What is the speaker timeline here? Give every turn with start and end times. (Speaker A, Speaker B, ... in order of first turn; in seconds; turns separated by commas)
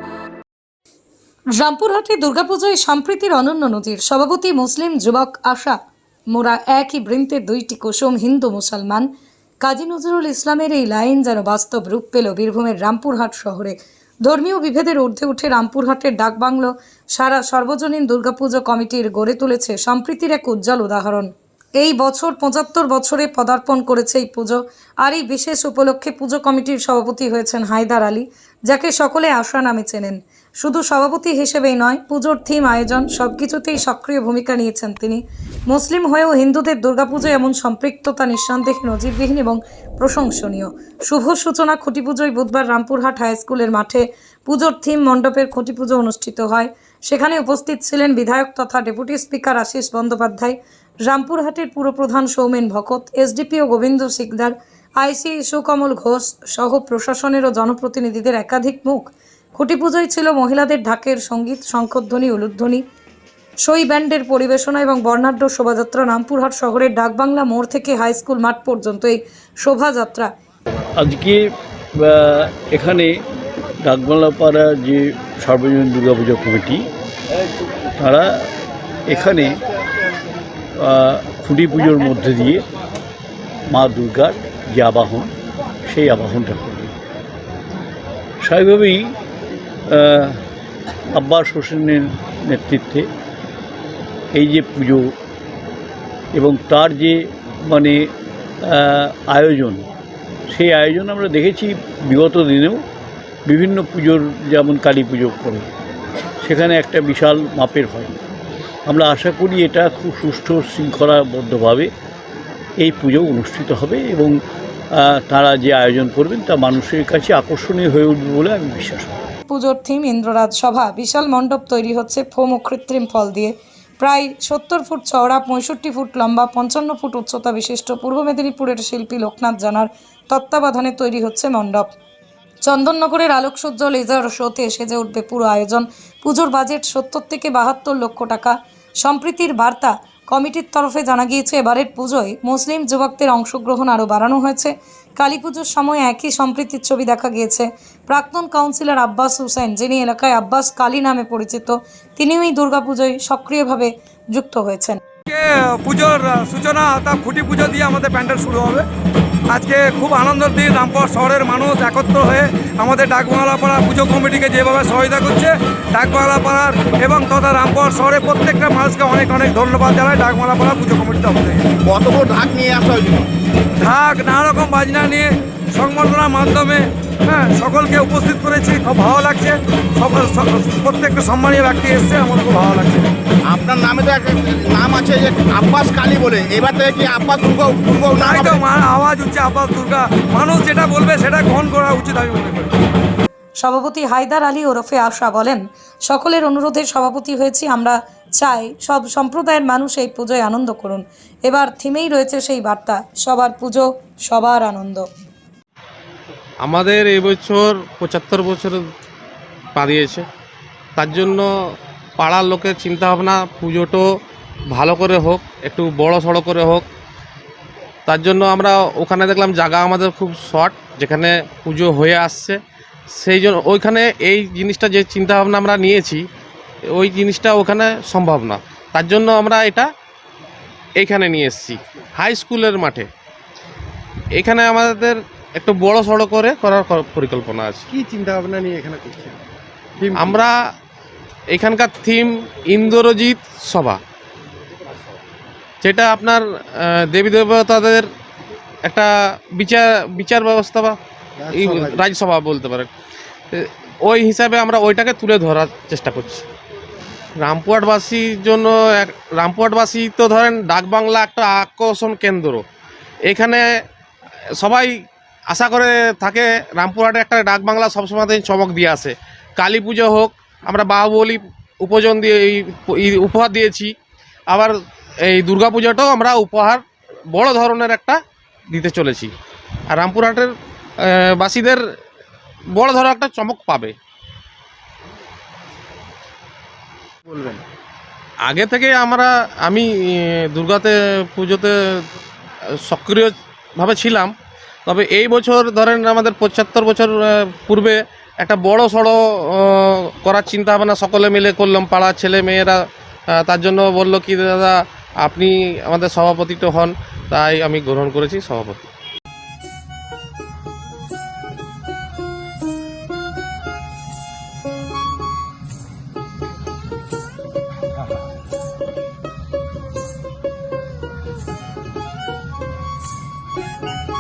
Speaker A: 1.6-5.8, Speaker A: 6.3-9.1, Speaker A: 9.6-62.8, Speaker A: 63.6-70.3, Speaker B: 71.0-71.4, Speaker B: 72.0-73.1, Speaker B: 73.8-76.9, Speaker B: 78.0-78.5, Speaker B: 79.1-79.6, Speaker B: 80.8-82.6, Speaker B: 83.7-85.3, Speaker B: 85.9-86.9, Speaker B: 88.4-89.2, Speaker B: 89.9-90.4, Speaker B: 91.1-93.1, Speaker B: 94.3-95.1, Speaker B: 96.3-98.1, Speaker B: 98.6-99.9, Speaker B: 100.5-102.8, Speaker B: 103.5-105.7, Speaker B: 106.4-108.1, Speaker B: 108.9-111.9, Speaker B: 112.8-114.3, Speaker B: 115.0-119.2, Speaker A: 119.5-131.9, Speaker A: 132.6-155.0, Speaker C: 155.2-158.8, Speaker C: 159.5-171.7, Speaker D: 171.8-173.3, Speaker C: 173.8-183.1, Speaker D: 183.4-188.6, Speaker C: 188.2-192.7, Speaker A: 193.6-205.1, Speaker E: 206.6-208.8, Speaker E: 209.7-210.2, Speaker E: 210.9-211.5, Speaker E: 212.2-214.1, Speaker E: 214.7-216.8, Speaker E: 218.1-222.6, Speaker E: 223.1-226.2, Speaker E: 226.9-229.9, Speaker E: 231.0-233.1, Speaker E: 234.3-237.8, Speaker F: 237.9-239.4, Speaker F: 240.0-240.4, Speaker E: 240.1-240.5, Speaker E: 241.5-244.0, Speaker E: 245.8-248.1, Speaker E: 248.8-251.0, Speaker F: 251.5-251.9, Speaker E: 251.5-252.9, Speaker E: 253.5-256.4, Speaker E: 257.4-262.6, Speaker E: 263.3-263.6, Speaker E: 264.6-264.9, Speaker E: 265.5-273.9, Speaker E: 274.5-278.2, Speaker E: 278.7-279.3, Speaker E: 279.9-281.8, Speaker E: 282.7-283.9, Speaker E: 288.4-292.0, Speaker E: 292.9-294.3, Speaker E: 294.9-302.8, Speaker E: 303.3-308.8